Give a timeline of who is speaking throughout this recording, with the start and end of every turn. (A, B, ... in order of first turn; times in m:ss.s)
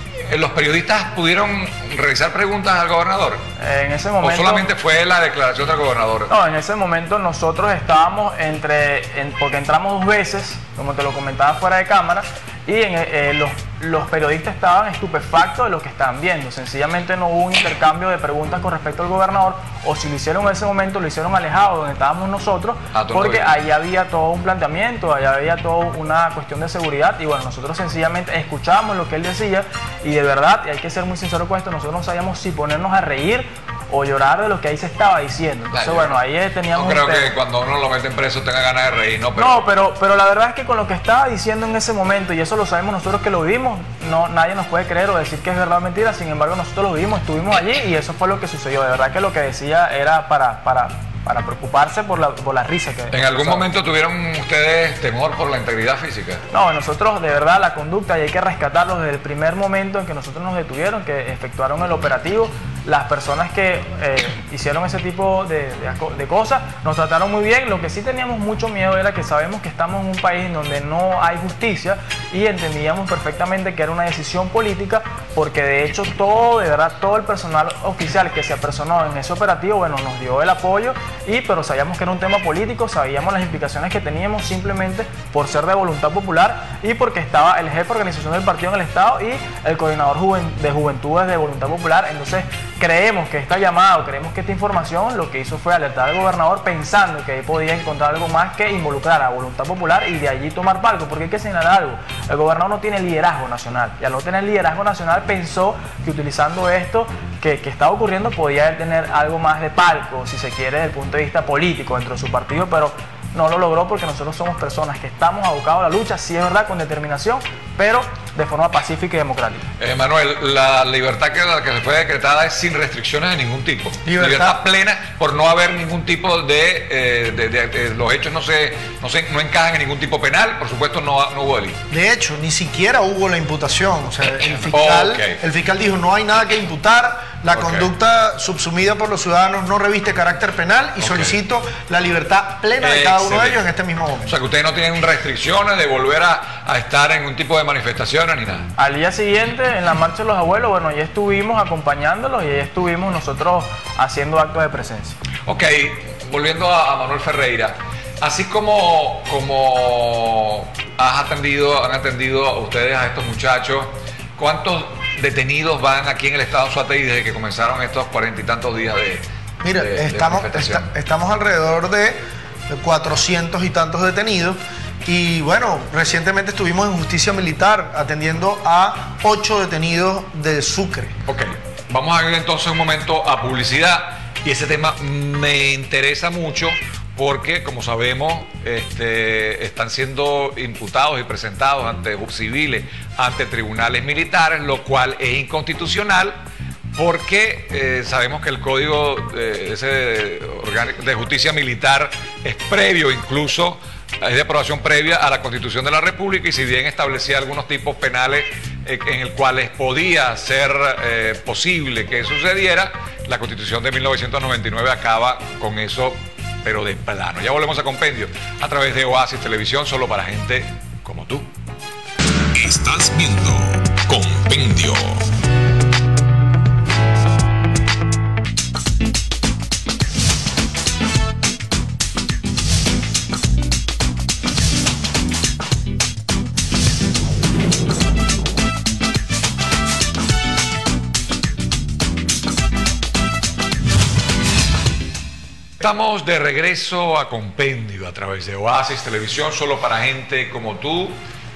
0:00.2-0:03.4 A
0:03.6-0:04.7 B
0:04.2-0:06.3 A
0:06.3-0:37.3 B
0:22.9-0:23.5 A
0:35.7-0:36.2 A
0:36.7-0:39.6 A
0:39.4-0:53.7 B
0:53.1-0:56.4 A
0:56.5-1:59.7 B
1:59.8-2:11.8 A
2:04.1-2:04.6 C
2:11.9-2:24.3 C
2:14.5-2:15.4 A
2:17.5-2:17.9 A
2:21.0-2:21.4 A
2:22.8-2:23.6 A
2:24.3-2:28.7 A
2:28.8-2:35.2 B
2:35.5-2:49.2 A
2:49.6-3:01.2 C
2:49.8-2:50.9 A
3:01.3-3:16.4 A
3:17.0-3:41.5 A
3:42.6-3:45.3 A
4:05.8-4:11.2 A